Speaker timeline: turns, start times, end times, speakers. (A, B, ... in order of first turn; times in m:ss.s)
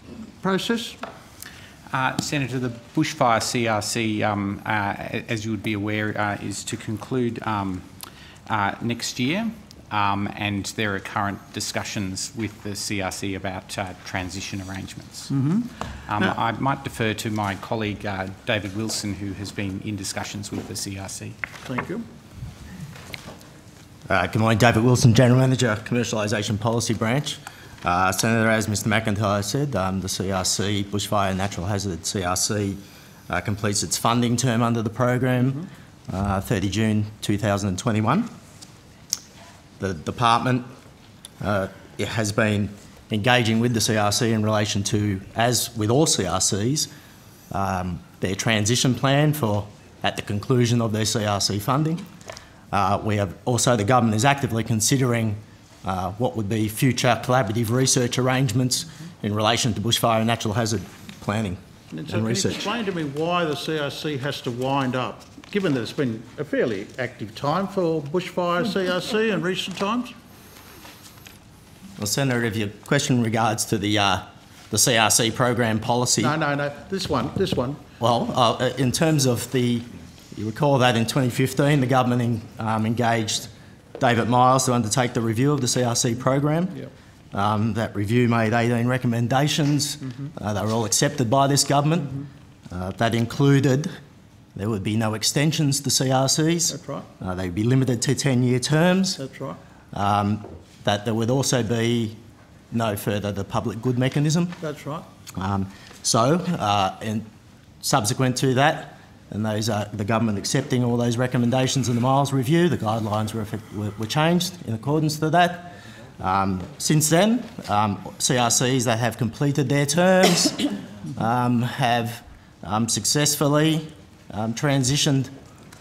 0:00.4-0:01.0 A
0:01.9-0:07.9 B
0:08.5-0:15.3 B
0:15.3-0:16.4 A
0:16.1-0:21.4 B
0:21.6-0:22.1 A
0:24.1-0:38.3 C
0:39.8-0:40.7 C
0:41.4-0:46.9 C
0:47.5-0:52.0 C
0:52.7-1:02.7 C
1:01.9-1:10.1 A
1:12.0-1:16.4 C
1:16.2-1:17.8 A
1:18.0-1:26.8 C
1:27.3-1:33.9 C
1:34.6-1:39.2 C
1:36.7-1:37.1 A
1:39.2-1:39.6 A
1:39.9-1:42.2 C
1:42.7-1:44.6 C
1:44.6-1:45.1 A
1:45.4-1:47.3 C
1:47.8-2:05.3 C